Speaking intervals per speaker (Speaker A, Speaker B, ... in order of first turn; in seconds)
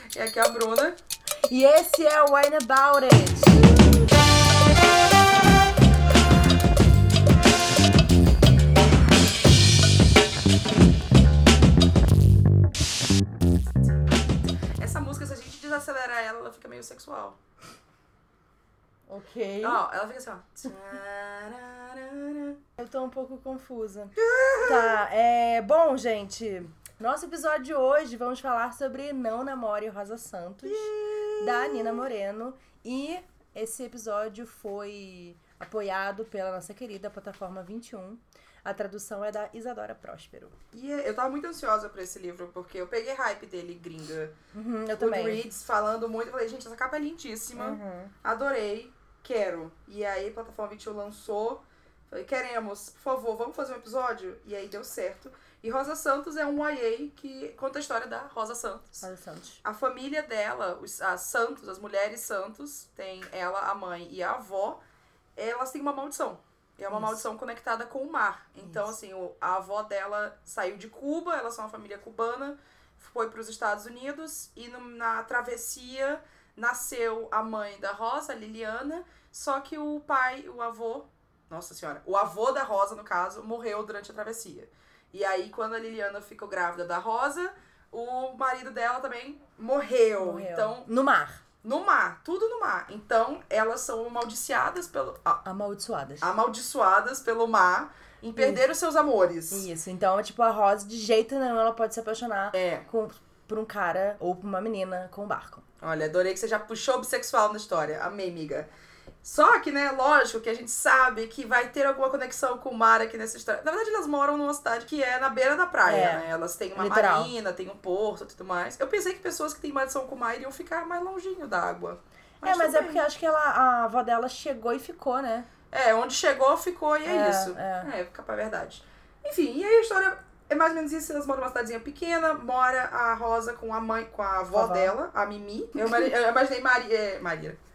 Speaker A: 0.1-1.0, 14.8-17.4, 19.6-22.6, 24.2-25.0, 30.6-32.1, 40.7-44.3, 45.0-59.0, 59.6-64.8, 65.3-90.9, 91.6-95.4, 96.2-99.7, 102.5-102.8, 105.8-108.7, 109.2-123.0, 125.7-137.6
Speaker B: 1.5-3.8, 19.1-19.8, 22.8-40.5, 44.5-45.4, 47.5-48.1, 59.0-59.6, 66.9-67.2, 90.2-91.4, 95.4-96.3, 98.3-98.6, 99.5-105.6, 115.8-117.3, 122.4-125.5, 127.0-127.9, 134.5-135.0